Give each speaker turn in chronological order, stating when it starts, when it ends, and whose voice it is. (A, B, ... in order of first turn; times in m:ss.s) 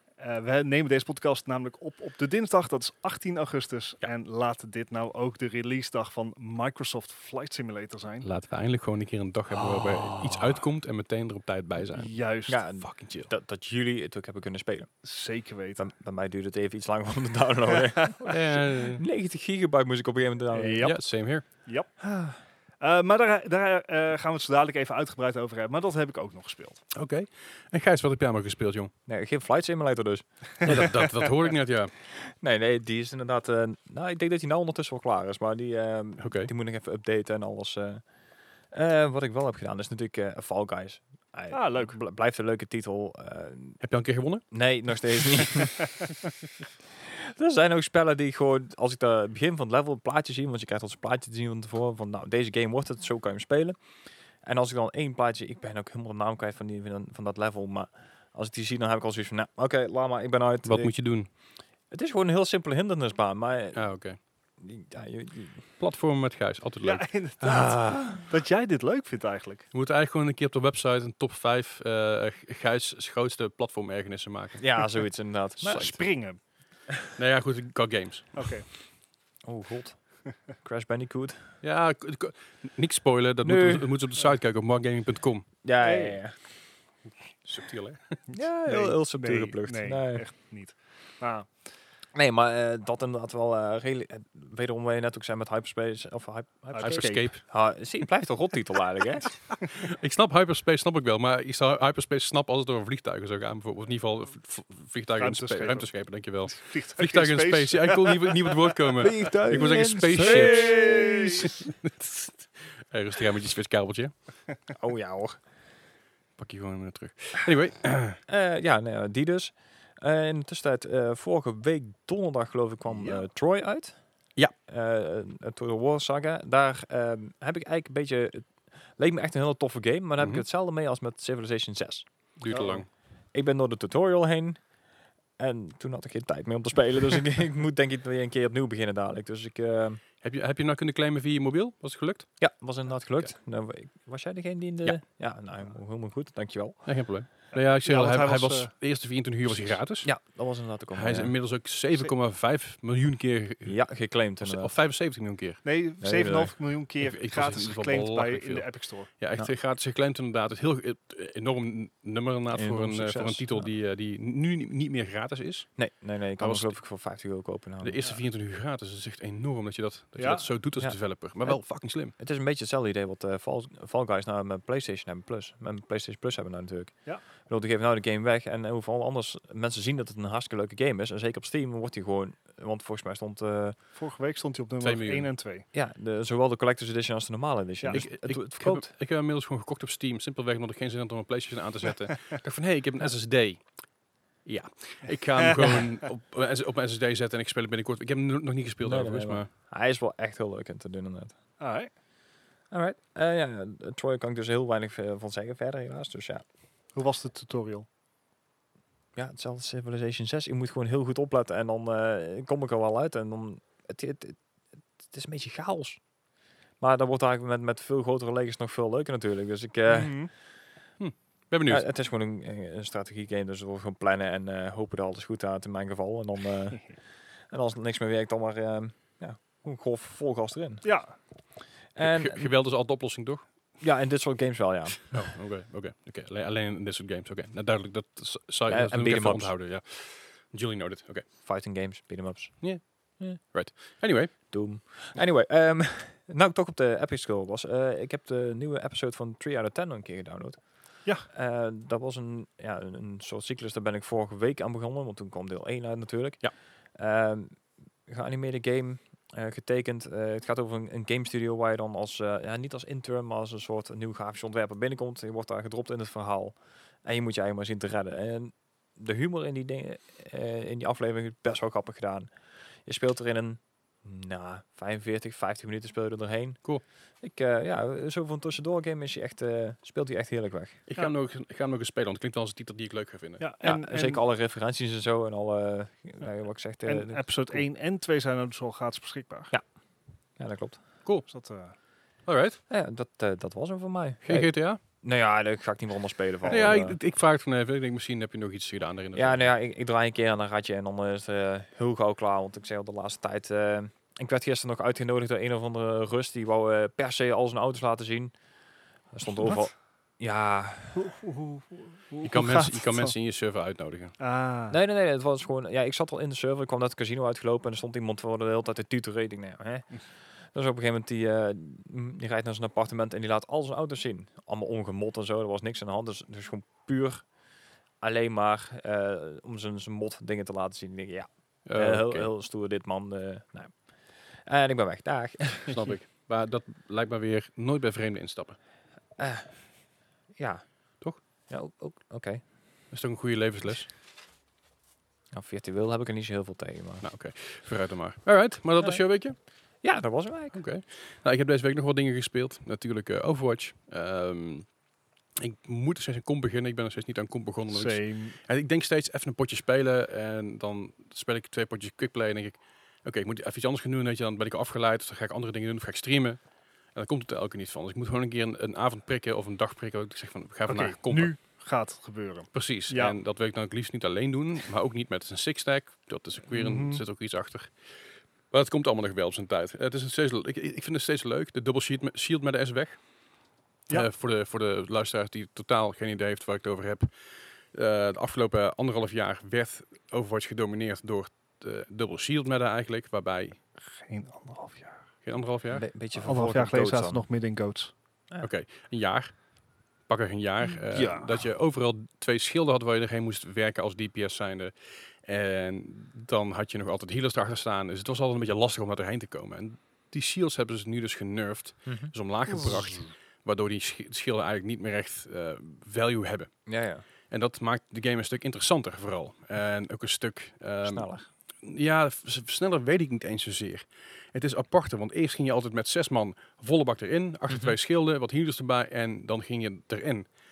0:00.2-0:08.3 A
0:08.2-0:12.1 B
0:09.6-0:10.3 A
0:11.9-0:12.6 A
0:12.5-0:14.9 C
0:12.8-0:13.3 B
0:15.0-0:15.8 A
0:15.8-0:20.9 C
0:18.2-0:19.0 B
0:20.5-0:26.8 A
0:20.8-0:21.5 B
0:26.9-0:28.9 B
0:29.1-0:31.0 C
0:30.6-0:31.9 B
0:32.1-0:38.0 C
0:36.2-0:36.5 B
0:38.7-0:43.8 C
0:41.5-0:42.0 A
0:43.8-0:44.5 B
0:44.5-0:45.9 C
0:47.0-0:53.8 C
0:54.4-1:00.9 C
1:00.6-1:01.3 B
1:01.9-1:03.8 C
1:03.7-1:04.2 B
1:04.6-1:05.6 C
1:05.8-1:08.0 B
1:06.8-1:09.7 A
1:09.7-1:14.9 B
1:14.6-1:16.0 C
1:15.6-1:16.4 A
1:17.2-1:18.5 B
1:18.4-1:18.7 A
1:19.4-1:20.0 C
1:20.6-1:21.5 C
1:21.6-1:25.5 B
1:23.4-1:23.9 C
1:25.6-1:26.4 C
1:25.8-1:26.2 A
1:27.4-1:28.2 B
1:28.3-1:30.2 C
1:28.3-1:31.5 A
1:32.2-1:39.4 C
1:36.7-1:37.3 A
1:36.8-1:37.4 B
1:39.6-1:54.1 B
1:45.2-1:49.1 A
1:49.0-1:51.5 C
1:50.2-1:51.6 A
1:54.8-1:55.4 C
1:56.4-1:58.2 B
1:58.3-2:04.0 C
2:02.9-2:03.2 A
2:04.7-2:12.1 C
2:10.2-2:10.4 B
2:12.4-2:12.9 B
2:12.5-2:12.8 A
2:13.3-2:14.6 C
2:15.4-2:20.0 C
2:20.2-2:22.3 B
2:22.4-2:26.9 C
2:26.8-2:30.1 B
2:27.5-2:28.7 A
2:30.0-2:31.3 C
2:30.9-2:33.8 B
2:33.6-2:34.7 C
2:34.4-2:35.6 B
2:35.6-2:39.1 A
2:36.0-2:36.5 C
2:37.0-2:45.7 B
2:42.5-2:43.7 C
2:45.8-2:48.0 C
2:46.4-2:46.8 B
2:47.8-2:52.1 B
2:50.2-2:50.5 A
2:50.8-3:03.8 C
3:04.0-3:05.7 A
3:04.8-3:05.3 B
3:05.7-3:08.9 C
3:07.9-3:13.6 B
3:14.4-3:19.5 B
3:15.4-3:15.8 A
3:18.8-3:21.4 C
3:21.6-3:21.9 A
3:22.7-3:26.4 C
3:27.0-3:27.9 A
3:29.2-3:34.4 C
3:35.1-3:36.0 C
3:36.8-3:40.2 C
3:39.9-3:40.3 A
3:41.0-3:41.9 B
3:41.7-3:47.0 C
3:47.5-3:50.8 C
3:50.8-3:51.2 A
3:52.0-3:52.5 C
3:52.0-3:53.4 B
3:53.8-3:55.2 C
3:55.1-4:01.3 B
3:58.7-3:59.5 C
4:01.4-4:03.4 C
4:02.6-4:04.4 B
4:04.5-4:32.3 C
4:32.8-4:36.6 C
4:37.2-4:40.8 C
4:40.9-4:43.4 B
4:43.4-4:44.2 A
4:43.6-4:47.6 C
4:46.8-4:49.5 A
4:50.4-4:50.8 C
4:51.3-4:51.8 A
4:52.3-4:52.6 B
4:52.7-4:57.0 C
4:54.2-4:54.8 B
4:56.5-4:59.5 B
4:59.1-5:08.3 C
5:09.1-5:11.1 C
5:11.0-5:13.1 A
5:12.2-5:14.1 B
5:14.2-5:14.8 A
5:14.7-5:19.9 C
5:20.5-5:27.2 C
5:28.0-5:33.8 C
5:31.7-5:32.3 B
5:34.4-5:35.9 C
5:35.7-5:38.6 B
5:39.2-5:39.7 C
5:40.4-5:40.7 C
5:41.5-5:42.4 C
5:42.9-5:43.9 B
5:45.3-5:47.0 C
5:47.0-5:49.4 B
5:49.8-5:50.6 C
5:50.5-5:54.7 B
5:55.4-6:06.4 B
5:57.7-5:58.4 A
6:07.0-6:11.3 B
6:10.7-6:13.2 A
6:12.5-6:17.7 B
6:16.5-6:17.0 A
6:18.5-6:23.0 B
6:23.9-6:27.1 B
6:27.7-6:33.6 B
6:33.9-6:35.0 A
6:35.2-6:35.8 B
6:35.7-6:37.2 C
6:36.2-6:37.9 A
6:38.4-6:39.4 B
6:40.1-6:44.7 B
6:40.9-6:41.4 A
6:45.2-6:56.5 B
6:51.9-6:52.1 C
6:56.7-6:57.0 C
6:57.3-7:01.1 B
7:00.8-7:01.3 C
7:01.6-7:10.3 B
7:07.5-7:07.8 C